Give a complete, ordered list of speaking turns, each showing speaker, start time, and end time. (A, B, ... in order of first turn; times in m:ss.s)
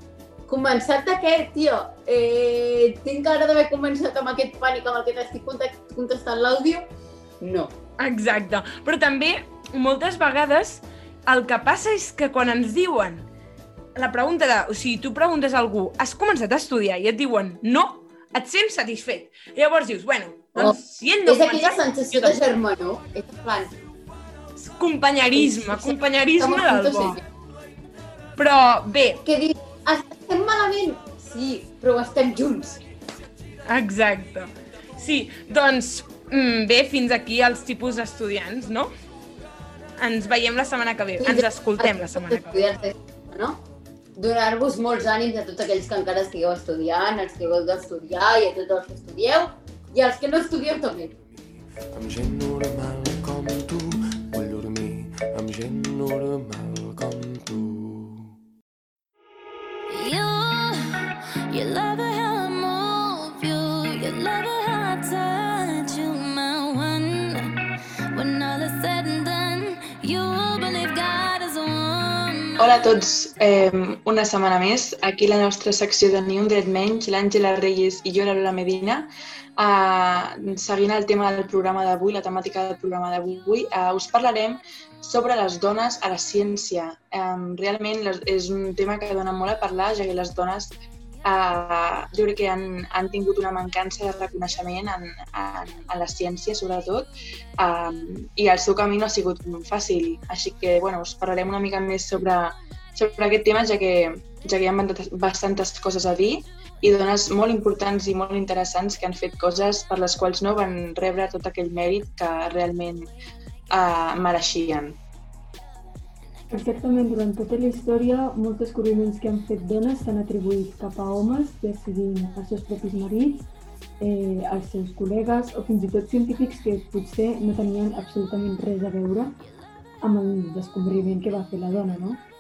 0:00.5-0:06.8 A
0:07.4-0:07.7 A
0:08.0-0:13.2 B
0:14.0-0:22.4 B
0:20.5-0:23.7 A
0:24.7-0:27.2 B
0:25.3-0:27.2 A
0:28.4-0:29.2 B
0:29.2-0:32.8 A
0:33.7-0:38.9 B
0:40.0-0:42.7 B
0:41.2-0:43.6 A
0:44.2-0:51.1 A
0:51.9-0:58.3 C
0:59.9-1:00.7 D
1:01.5-1:07.5 D
1:08.1-1:12.7 D
1:12.6-1:53.1 E
1:53.7-1:55.0 E
1:56.5-2:03.5 F
2:04.0-2:09.4 F
2:10.0-2:12.2 F